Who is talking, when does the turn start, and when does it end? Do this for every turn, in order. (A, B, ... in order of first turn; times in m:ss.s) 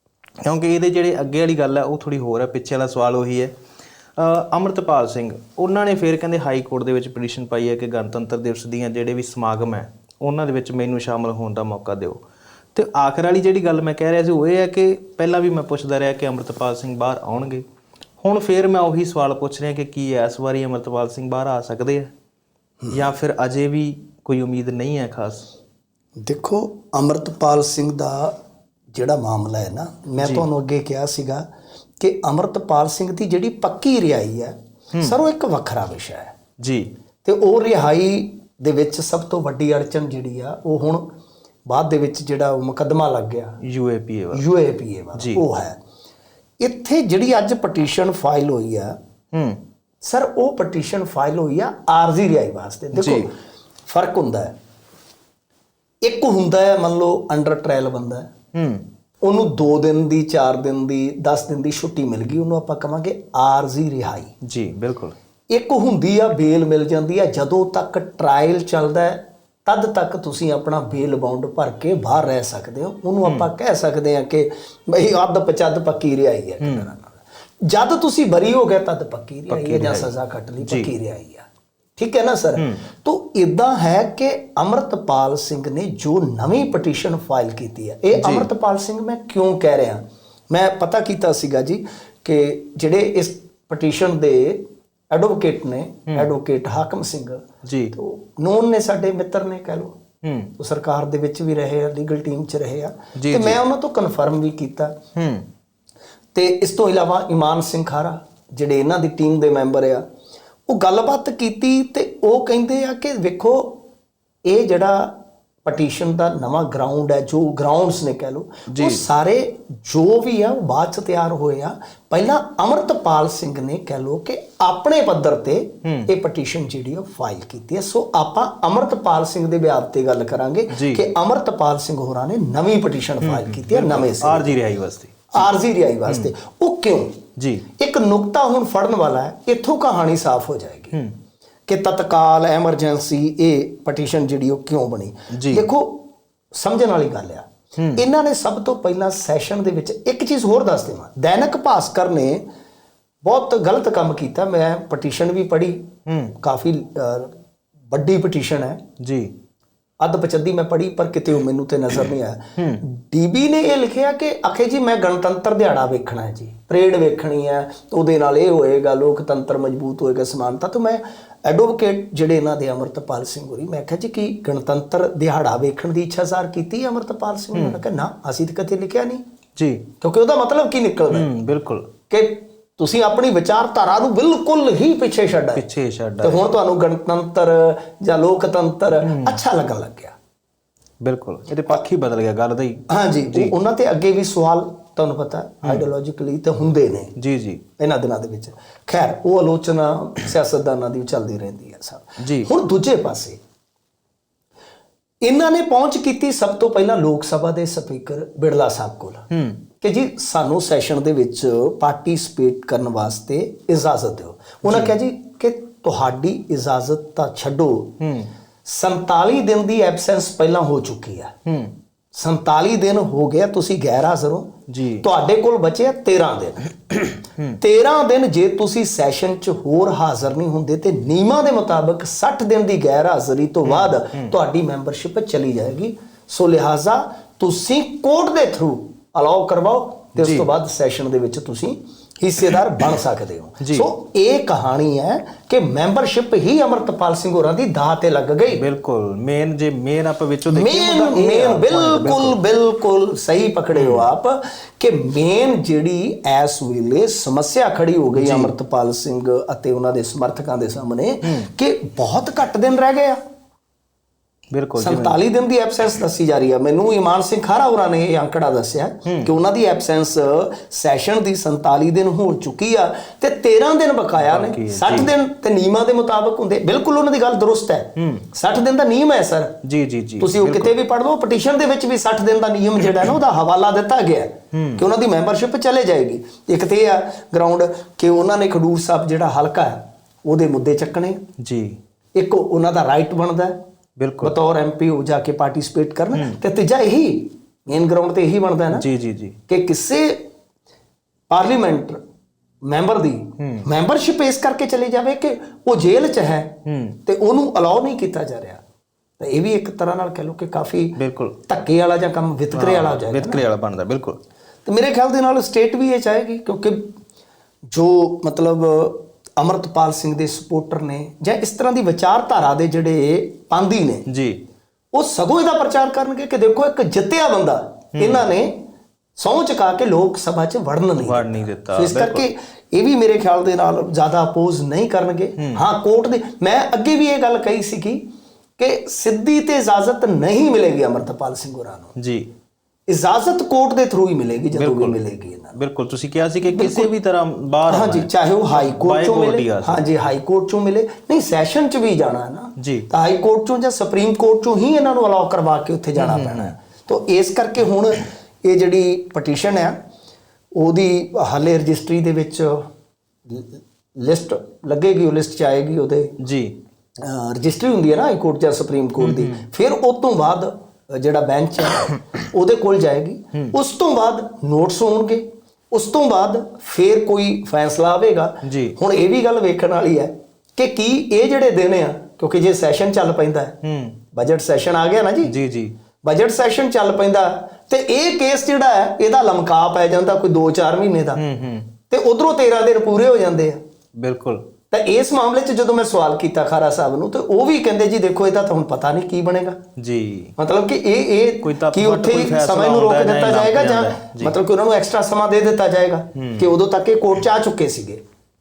0:00.4-0:03.5 A
0:04.2-0:12.2 A
0:12.7-0:17.6 A
0:18.2-0:22.1 A
0:22.9-0:25.5 A
0:26.2-0:28.3 B
0:28.9-0:31.5 B
0:30.2-0:30.4 A
0:32.0-0:36.3 B
0:36.6-0:36.9 A
0:37.2-0:41.1 B
0:41.7-0:43.6 B
0:43.6-0:44.4 A
0:44.3-0:45.8 B
0:45.2-0:45.4 A
0:46.6-0:49.0 B
0:49.3-0:49.6 A
0:50.0-0:53.3 B
0:52.9-0:53.3 A
0:53.9-0:54.5 B
0:56.0-0:58.3 B
0:58.5-0:58.8 A
0:59.2-1:04.3 B
1:04.4-1:05.1 A
1:05.5-1:40.0 B
1:16.6-1:16.9 A
1:19.5-1:20.9 A
1:22.6-1:22.8 A
1:28.1-1:28.5 A
1:37.6-1:37.9 A
1:40.2-1:40.5 A
1:40.6-1:44.9 B
1:43.2-1:43.6 A
1:45.2-1:45.5 A
1:46.3-1:50.0 B
1:50.7-1:53.8 B
1:54.4-2:14.6 B
1:58.7-1:59.0 A
2:05.8-2:06.1 A
2:10.7-2:11.0 A
2:13.2-2:15.5 A
2:15.3-2:17.2 B
2:17.4-2:17.6 A
2:17.8-2:20.9 B
2:21.7-2:32.4 B
2:25.3-2:25.6 A
2:27.8-2:28.0 A
2:33.2-2:37.3 B
2:36.1-2:36.3 A
2:37.9-2:38.8 B
2:39.0-2:39.3 A
2:40.0-2:59.2 B
2:42.6-2:42.8 A
2:57.5-2:57.8 A
2:59.6-2:59.9 A
3:00.0-3:01.3 B
3:01.1-3:01.9 A
3:02.1-3:05.6 B
3:05.5-3:06.6 A
3:06.2-3:10.1 B
3:09.0-3:09.4 A
3:11.0-3:13.5 A
3:12.9-3:17.1 B
3:17.2-3:17.6 A
3:17.8-3:23.4 B
3:22.2-3:22.5 A
3:25.2-3:29.2 B
3:29.3-3:29.6 A
3:29.8-3:38.0 B
3:34.6-3:34.9 A
3:38.0-3:38.3 A
3:38.6-3:41.3 B
3:41.4-3:41.7 A
3:42.1-3:46.8 B
3:44.7-3:45.0 A
3:47.6-4:08.6 B
3:53.6-3:54.3 A
4:00.2-4:00.5 A
4:03.6-4:03.9 A
4:08.5-4:12.4 A
4:10.5-4:23.2 B
4:13.7-4:14.1 A
4:18.2-4:18.5 A
4:21.2-4:21.5 A
4:24.5-4:25.2 A
4:24.8-4:39.6 B
4:34.2-4:35.1 A
4:38.0-4:38.3 A
4:39.6-4:40.7 A
4:40.2-4:51.2 B
4:44.5-4:44.8 A
4:51.4-4:51.8 A
4:52.2-4:53.6 B
4:54.0-4:54.3 A
4:54.2-4:58.8 B
4:56.1-4:56.4 A
4:58.7-4:59.4 A
4:59.5-5:00.2 B
5:01.3-5:02.0 B
5:02.6-5:08.6 B
5:03.4-5:03.6 A
5:06.6-5:07.0 A
5:09.2-5:11.0 B
5:11.0-5:11.4 A
5:11.5-5:13.4 B
5:12.5-5:14.2 A
5:14.6-5:16.9 B
5:17.7-5:24.0 B
5:24.1-5:24.4 A
5:24.9-5:28.6 B
5:28.0-5:28.3 A
5:29.2-5:38.0 B
5:31.0-5:32.3 A
5:35.4-5:35.6 A
5:38.6-5:41.9 B
5:42.0-5:42.3 A
5:42.9-5:45.6 B
5:44.5-5:45.0 A
5:45.5-5:49.8 A
5:46.4-5:46.9 B
5:47.7-5:59.7 B
5:52.6-5:52.9 A
5:56.0-5:56.5 A
6:00.6-6:02.6 B
6:03.3-6:06.2 B
6:06.2-6:06.6 A
6:07.0-6:23.6 B
6:09.0-6:09.4 A
6:18.4-6:18.8 A
6:23.6-6:24.0 A
6:24.1-6:25.3 B
6:25.3-6:25.7 A
6:26.0-6:31.2 B
6:31.2-6:31.7 A
6:31.9-6:33.6 B
6:34.0-6:34.4 A
6:34.7-6:39.6 B
6:39.8-6:40.3 A
6:40.4-6:48.0 B
6:41.4-6:44.4 A
6:46.1-6:46.5 A